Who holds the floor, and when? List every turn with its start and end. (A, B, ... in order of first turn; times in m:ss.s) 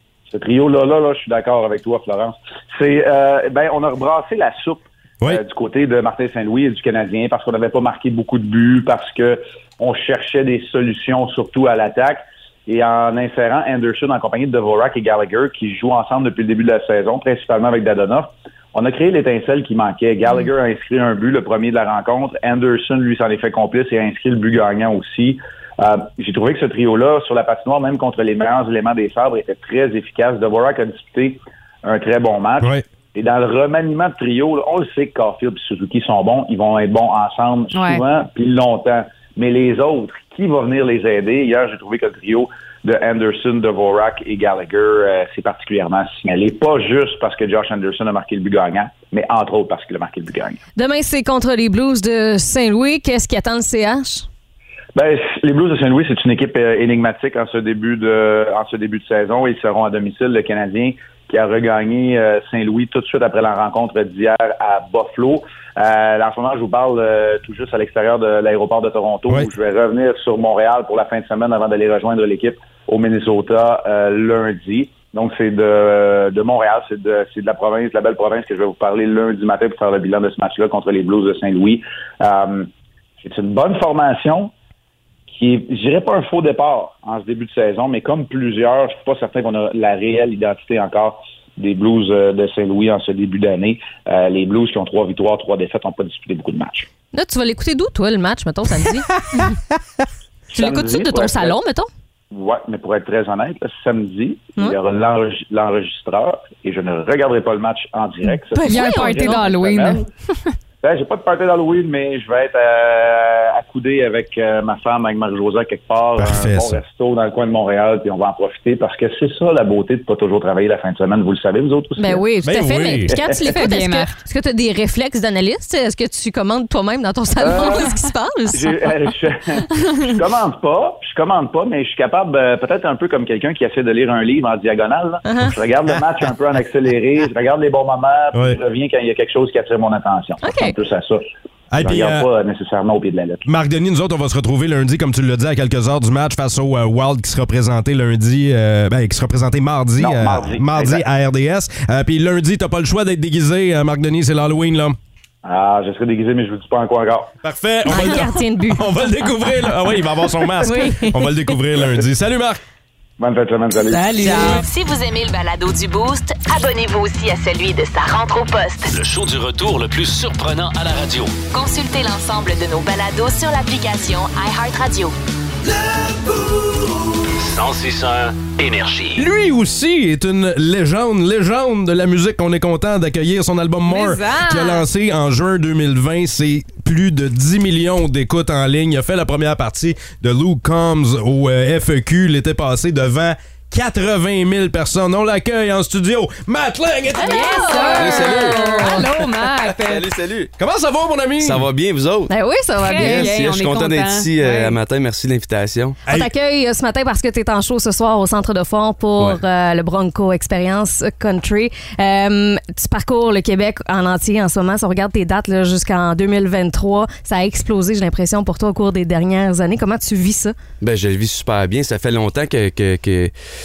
0:00.3-0:50.6 A
0:37.7-0:38.0 B
0:50.8-0:54.3 C
0:55.0-1:22.7 A
1:23.2-1:24.5 A
1:25.3-1:36.9 A
1:37.1-1:39.6 C
1:40.5-1:41.6 A
1:40.5-1:41.9 C
1:42.3-1:50.1 A
1:48.5-1:49.5 C
1:48.6-1:50.0 B
1:50.8-2:02.2 A
1:56.2-1:56.8 D
2:02.0-2:08.9 C
2:02.4-2:03.2 D
2:03.1-2:03.4 A
2:03.4-2:04.1 B
2:07.4-2:07.9 A
2:08.5-2:21.2 A
2:15.2-2:15.6 C
2:18.3-2:18.6 D
2:20.4-2:20.8 C
2:21.7-2:22.3 D
2:21.8-2:23.5 A
2:23.5-2:35.0 D
2:30.0-2:31.1 A
2:35.4-2:37.3 A
2:37.4-2:42.6 D
2:37.9-2:39.0 C
2:40.6-2:41.6 C
2:43.2-2:44.1 A
2:44.0-2:44.6 C
2:44.1-2:44.6 B
2:44.2-2:48.9 E
2:48.9-2:51.4 F
2:51.5-2:55.2 E
2:57.4-2:59.2 F
2:59.2-3:17.9 D
3:03.9-3:04.8 B
3:17.2-3:20.1 B
3:17.2-3:19.2 C
3:18.0-3:18.7 G
3:19.7-3:20.5 G
3:20.6-3:21.7 D
3:21.4-3:22.3 G
3:22.3-3:23.3 C
3:22.8-3:24.8 B
3:23.0-3:23.3 D
3:23.0-3:26.0 G
3:26.1-3:26.3 D
3:26.1-3:40.6 C
3:40.8-3:43.3 G